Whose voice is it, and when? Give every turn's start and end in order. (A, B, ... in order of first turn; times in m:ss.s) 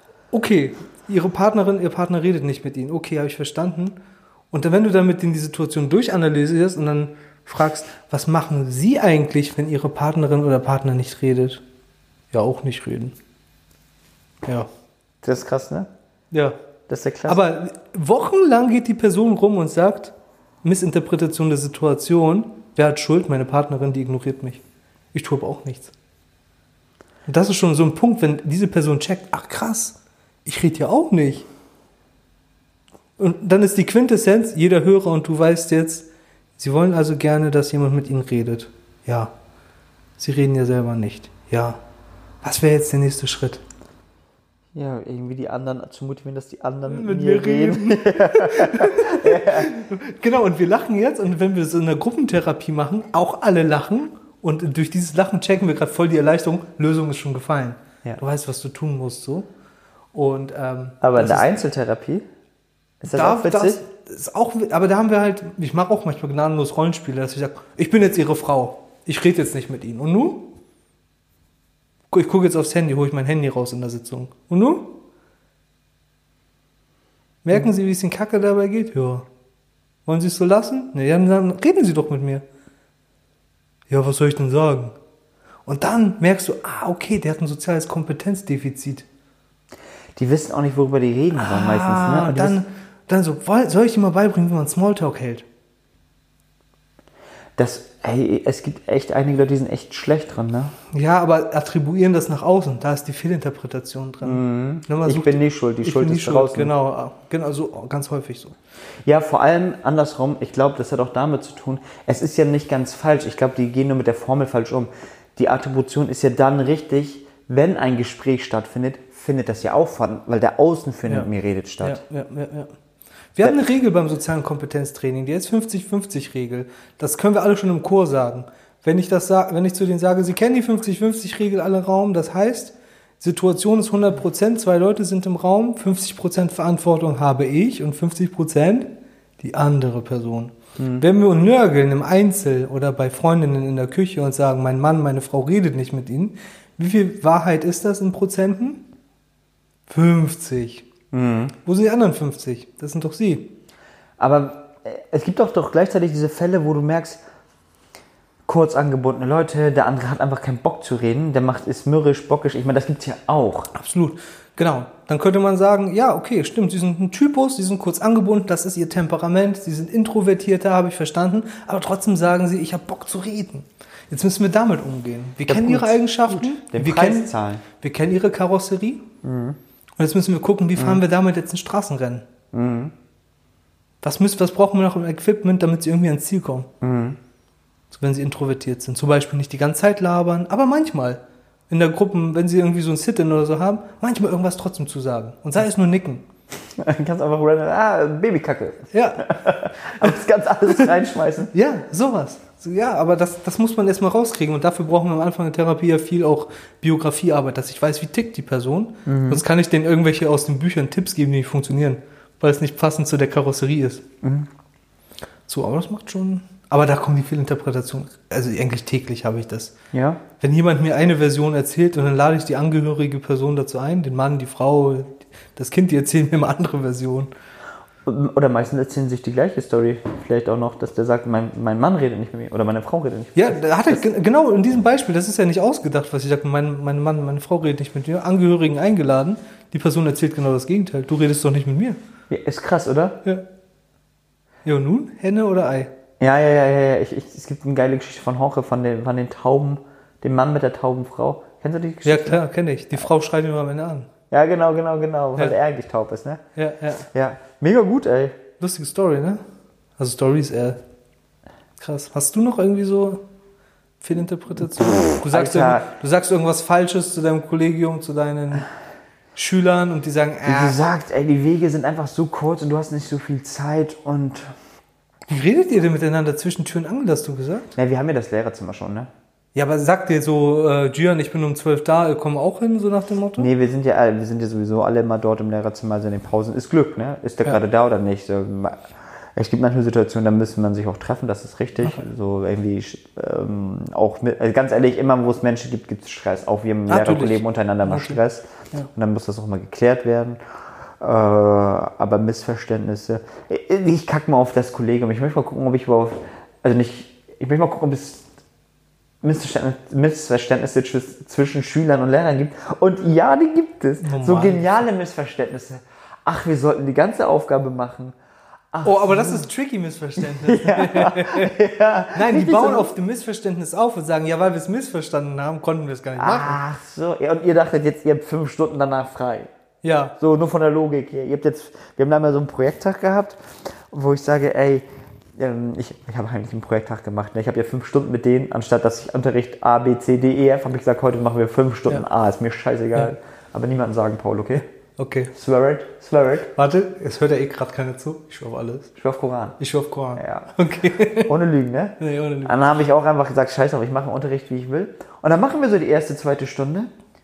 0:00.3-0:04.0 A
0:04.5-0:11.6 A
0:12.3-0:13.2 A
0:15.2-0:15.9 B
0:16.9-0:17.4 B
0:17.3-0:25.9 A
0:27.3-0:31.5 A
0:33.2-0:39.3 A
0:40.2-0:41.8 A
0:42.4-0:43.6 A
0:44.7-0:49.8 B
0:46.9-0:59.5 A
1:00.1-1:01.5 A
1:01.0-1:02.3 B
1:03.0-1:03.8 B
1:03.1-1:10.5 A
1:12.1-1:15.0 A
1:17.4-1:19.3 A
1:20.1-1:22.4 A
1:23.9-1:25.0 A
1:25.7-1:29.1 A
1:30.2-1:32.6 B
1:31.4-1:35.4 A
1:37.6-1:40.7 B
1:40.9-1:48.6 A
1:44.2-1:46.7 B
1:49.0-2:02.0 B
2:01.8-2:02.7 A
2:03.3-2:28.8 A
2:20.8-2:21.0 B
2:29.9-2:30.9 A
2:31.1-2:31.6 B
2:31.6-2:33.5 A
2:34.2-2:37.2 B
2:38.5-2:43.7 B
2:43.8-2:59.0 A
2:55.5-2:57.6 B
2:59.2-2:59.6 B
3:00.0-3:02.3 A
3:00.8-3:01.0 B
3:02.5-3:02.9 B
3:04.0-3:06.7 A
3:06.8-3:07.2 B
3:07.9-3:16.3 A
3:16.8-3:21.5 B
3:18.9-3:19.4 A
3:21.5-3:34.0 A
3:29.1-3:29.4 B
3:34.2-3:34.5 B
3:35.5-3:39.8 A
3:39.9-3:40.2 B
3:40.4-3:47.3 A
3:48.0-3:54.0 B
3:53.4-4:02.0 A
4:02.3-4:03.2 B
4:04.6-4:05.9 A
4:06.2-4:12.4 B
4:12.0-4:14.1 A
4:14.3-4:16.4 B
4:16.6-4:17.1 A
4:17.1-4:18.4 B
4:18.6-4:19.4 A
4:20.0-4:20.8 A
4:21.8-4:23.2 A
4:24.0-4:28.7 A
4:24.9-4:25.9 B
4:29.4-4:30.8 A
4:30.5-4:34.6 B
4:35.3-4:37.7 A
4:37.8-4:39.1 B
4:39.6-4:43.5 A
4:43.4-5:00.4 B
4:56.9-4:58.2 A
5:01.0-5:08.3 B
5:09.2-5:18.2 B
5:14.0-5:14.8 A
5:18.7-5:19.5 B
5:18.8-5:21.6 A
5:20.2-5:22.9 B
5:22.1-5:26.6 A
5:26.2-5:29.5 B
5:29.8-5:30.2 A
5:30.2-5:44.7 B
5:45.0-5:45.3 A
5:45.3-5:46.5 B
5:46.6-5:48.9 A
5:49.0-5:49.6 B
5:49.6-5:51.3 A
5:50.2-5:50.5 B
5:51.3-5:56.9 B
5:52.0-5:52.8 A